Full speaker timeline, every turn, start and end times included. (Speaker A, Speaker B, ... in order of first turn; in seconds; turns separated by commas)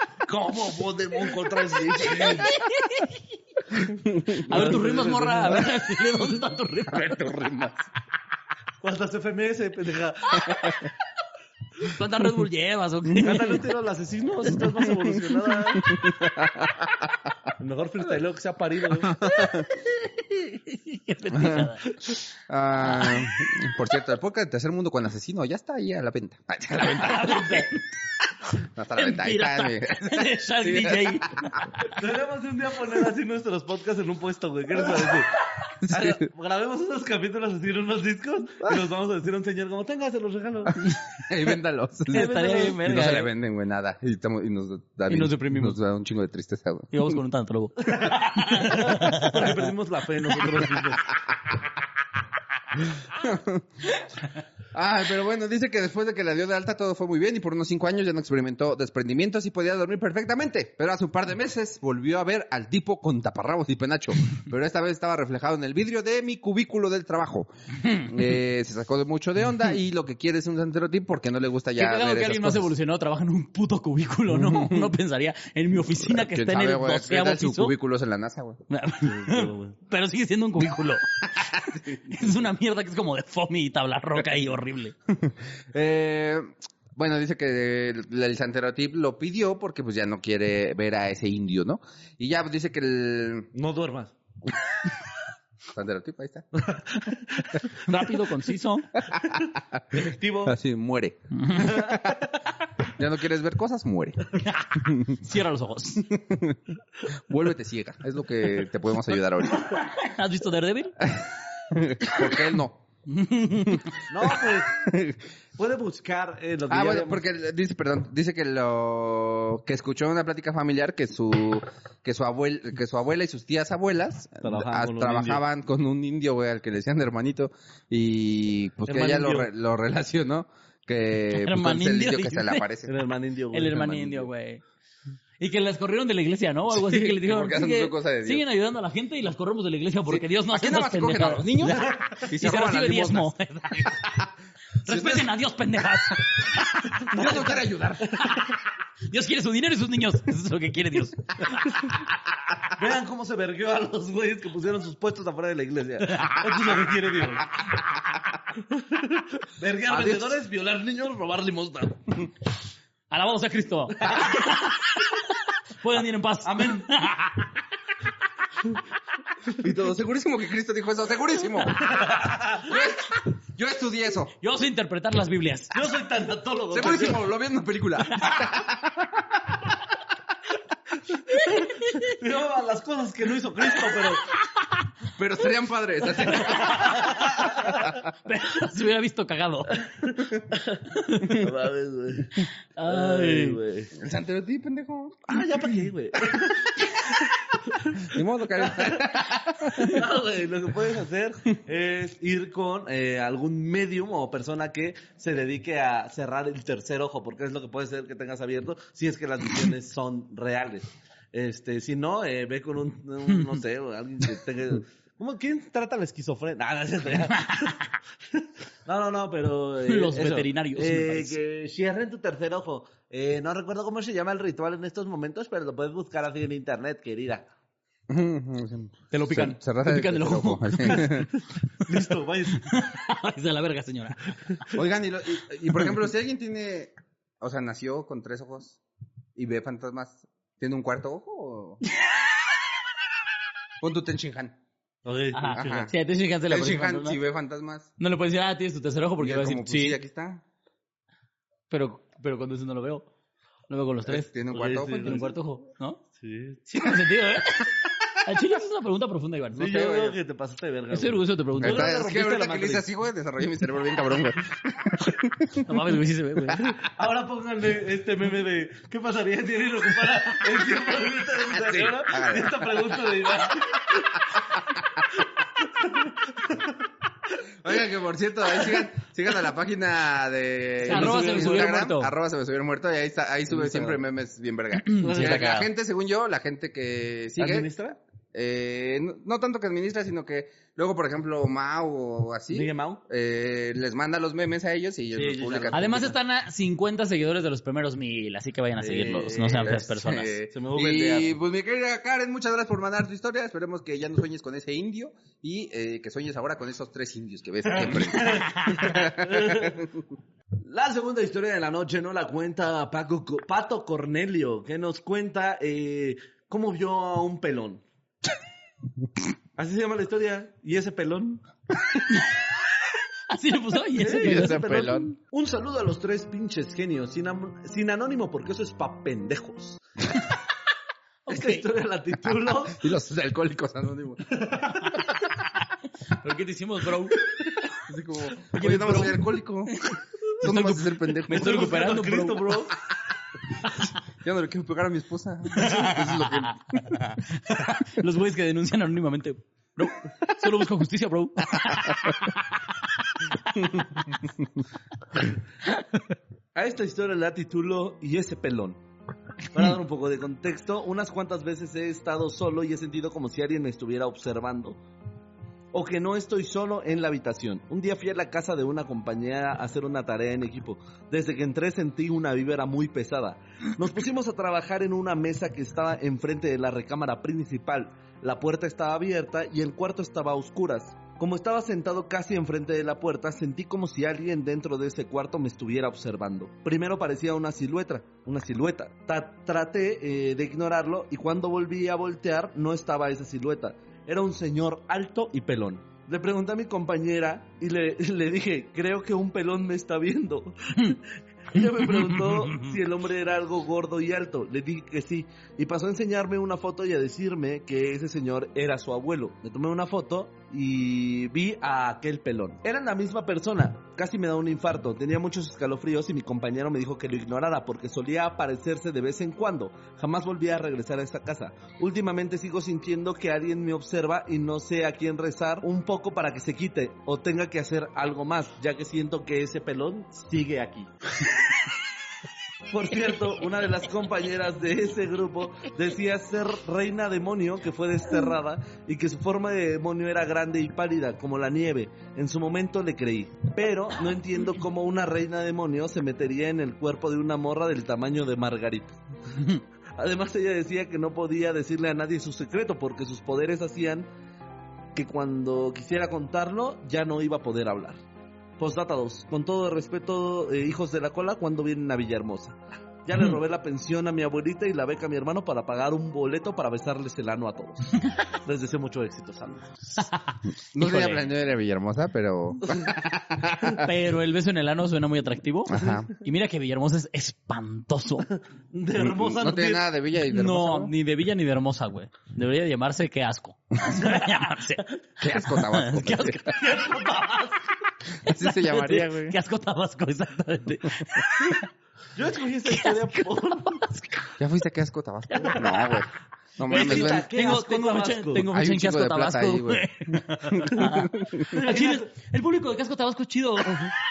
Speaker A: 0.3-2.5, Speaker B: 2.0-3.2, Speaker C: 4.0-4.8, Speaker B: 4.4-7.3, Speaker A: 4.5-5.7, Speaker C: 6.9-7.9, Speaker A: 8.8-10.7, Speaker C: 10.5-10.8, Speaker B: 11.8-13.6, Speaker A: 13.2-15.9, Speaker C: 15.8-17.3, Speaker A: 17.6-19.2, Speaker C: 19.1-19.7, Speaker B: 19.3-22.2, Speaker C: 21.3-21.7, Speaker C: 22.5-27.7, Speaker B: 22.9-23.3, Speaker B: 26.8-27.9, Speaker C: 28.6-31.7, Speaker B: 29.0-31.6, Speaker A: 31.9-40.8, Speaker C: 35.8-36.2, Speaker C: 41.2-47.2, Speaker B: 42.1-43.3, Speaker A: 42.1-42.8, Speaker B: 45.1-45.8, Speaker B: 46.9-49.7, Speaker A: 47.9-51.1, Speaker C: 53.0-53.8, Speaker C: 54.7-72.7, Speaker B: 71.8-77.7, Speaker C: 74.3-74.9, Speaker C: 76.0-78.6, Speaker B: 78.7-84.9, Speaker A: 79.0-79.8, Speaker C: 81.4-82.2, Speaker C: 85.1-93.5, Speaker A: 93.5-94.2, Speaker C: 95.7-96.5, Speaker A: 96.6-97.6, Speaker B: 97.7-98.9, Speaker C: 99.1-102.2, Speaker A: 99.9-100.6, Speaker B: 101.4-101.8, Speaker A: 101.8-102.1, Speaker C: 102.9-105.2, Speaker B: 104.4-106.1, Speaker C: 106.0-109.8, Speaker B: 109.5-111.0, Speaker C: 111.0-112.8, Speaker B: 113.1-113.9, Speaker A: 114.1-114.9, Speaker C: 114.3-115.2, Speaker A: 115.6-117.2, Speaker C: 116.7-132.9, Speaker A: 124.4-125.4, Speaker A: 128.9-129.5, Speaker B: 131.3-132.7, Speaker A: 132.9-134.2, Speaker B: 133.5-134.6, Speaker B: 135.4-144.0, Speaker C: 136.7-138.4, Speaker C: 140.1-144.3, Speaker A: 141.6-142.2, Speaker B: 144.8-147.4, Speaker C: 144.9-145.3, Speaker C: 146.3-148.4, Speaker A: 147.1-147.5, Speaker B: 148.1-148.6, Speaker B: 149.1-151.7, Speaker A: 152.8-157.5, Speaker B: 156.1-156.7, Speaker A: 158.6-162.1, Speaker C: 159.9-160.4, Speaker B: 163.1-165.2, Speaker A: 164.0-164.4, Speaker B: 165.8-167.5, Speaker A: 166.4-166.9, Speaker C: 169.6-171.8, Speaker A: 171.8-172.7, Speaker C: 172.6-174.3, Speaker B: 174.4-175.8, Speaker A: 175.7-177.3, Speaker C: 176.7-179.6, Speaker A: 181.3-184.3, Speaker B: 181.5-182.0, Speaker C: 185.2-187.0, Speaker B: 186.2-189.9, Speaker A: 186.7-187.8, Speaker A: 189.7-193.9, Speaker B: 190.9-191.5, Speaker B: 192.8-193.6, Speaker C: 193.9-195.4, Speaker A: 195.3-196.9, Speaker A: 197.5-199.1, Speaker C: 198.0-200.0, Speaker A: 199.7-217.8, Speaker B: 217.3-217.8, Speaker A: 218.3-227.5, Speaker B: 219.8-221.4, Speaker C: 228.1-231.3, Speaker B: 229.1-231.3, Speaker A: 231.3-232.8, Speaker B: 232.5-234.8, Speaker C: 234.7-238.8, Speaker C: 239.4-241.8, Speaker C: 243.8-244.6, Speaker A: 245.1-245.9, Speaker B: 245.3-247.2, Speaker C: 245.5-245.9, Speaker C: 246.5-247.9, Speaker B: 248.0-250.0, Speaker C: 249.2-250.4, Speaker B: 251.7-253.1, Speaker B: 253.7-256.0, Speaker C: 254.1-255.3, Speaker A: 254.5-255.3, Speaker A: 256.2-256.7, Speaker B: 256.7-259.8, Speaker A: 259.6-262.9, Speaker C: 259.6-260.2, Speaker B: 260.9-261.9, Speaker C: 261.6-265.9, Speaker B: 265.6-266.7, Speaker C: 266.5-266.7, Speaker A: 266.8-274.4, Speaker C: 271.5-272.9, Speaker C: 274.4-274.6, Speaker A: 275.1-276.8, Speaker C: 277.6-287.7, Speaker A: 280.8-281.7, Speaker B: 280.9-282.1, Speaker A: 283.5-284.0, Speaker B: 284.8-285.7, Speaker A: 285.0-285.6, Speaker A: 287.4-288.0, Speaker C: 288.3-296.1, Speaker A: 292.5-293.0, Speaker A: 295.1-296.1, Speaker B: 295.7-300.4, Speaker A: 298.8-299.9, Speaker C: 299.6-310.0, Speaker A: 300.5-301.4, Speaker A: 307.8-309.8, Speaker B: 308.3-308.8, Speaker A: 310.6-317.8, Speaker A: 319.6-321.4, Speaker B: 323.3-324.7, Speaker A: 324.0-329.8, Speaker C: 324.2-325.1, Speaker B: 331.3-331.6, Speaker A: 331.3-332.8, Speaker C: 332.7-334.3, Speaker A: 334.3-335.0, Speaker B: 336.1-337.2, Speaker C: 337.8-339.8, Speaker B: 338.5-342.6, Speaker C: 340.4-341.7, Speaker A: 341.3-342.8, Speaker C: 343.7-347.0, Speaker B: 345.5-352.6, Speaker A: 356.6-358.8, Speaker A: 359.5-364.8, Speaker A: 365.7-430.9, Speaker B: 401.7-402.7, Speaker A: 432.7-449.0, Speaker A: 450.0-454.1, Speaker A: 454.9-458.0, Speaker A: 458.6-470.0, Speaker B: 470.0-471.3, Speaker C: 470.7-473.9, Speaker B: 473.7-478.3, Speaker C: 475.7-476.1, Speaker A: 478.7-479.9, Speaker C: 479.0-480.9, Speaker B: 480.3-487.1, Speaker C: 485.2-486.4, Speaker A: 486.5-487.7, Speaker C: 488.2-489.4, Speaker B: 488.3-491.7, Speaker A: 492.1-493.9, Speaker B: 492.7-493.1, Speaker B: 493.7-494.0, Speaker C: 494.4-497.3, Speaker B: 495.4-496.1, Speaker A: 496.7-498.5, Speaker B: 496.7-503.9, Speaker C: 498.5-501.5, Speaker A: 501.4-502.1